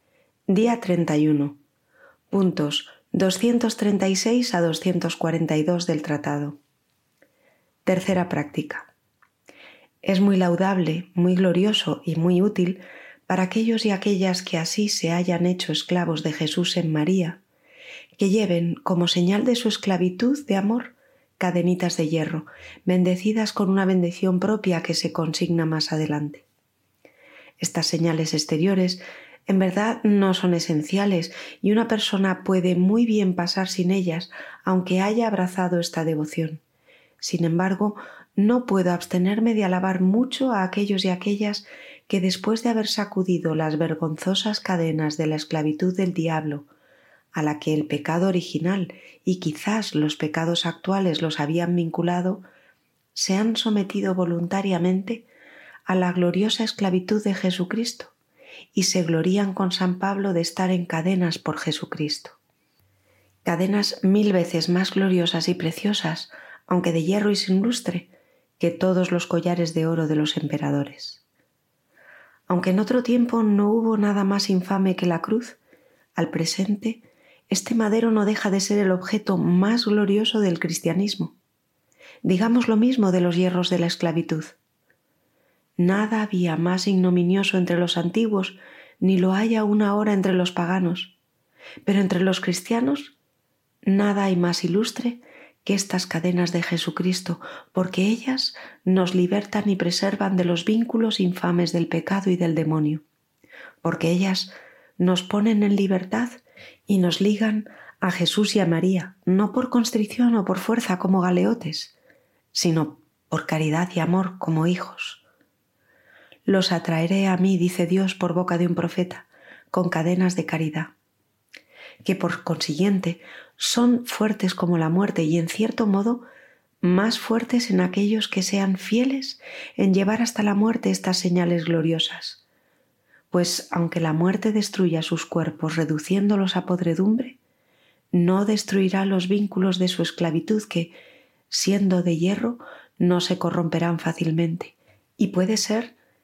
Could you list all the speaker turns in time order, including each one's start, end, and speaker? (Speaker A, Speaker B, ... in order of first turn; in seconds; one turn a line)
Speaker A: 0.5-1.6
Speaker A: 2.3-6.6
Speaker A: 7.9-8.9
Speaker A: 10.0-17.4
Speaker A: 18.1-26.4
Speaker A: 27.6-36.6
Speaker A: 37.2-46.7
Speaker A: 47.3-52.4
Speaker A: 53.1-55.3
Speaker A: 55.9-58.1
Speaker A: 58.7-62.4
Speaker A: 63.4-71.2
Speaker A: 72.5-75.6
Speaker A: 76.2-81.3
Speaker A: 82.2-84.6
Speaker A: 85.8-91.1
Speaker A: 91.8-93.1
Speaker A: 93.8-103.0
Speaker A: 103.8-111.9
Speaker A: 112.5-115.2
Speaker A: 116.5-120.9
Speaker A: 122.0-126.2
Speaker A: 126.8-132.4
Speaker A: 133.3-137.4
Speaker A: 138.1-140.9
Speaker A: 141.5-145.9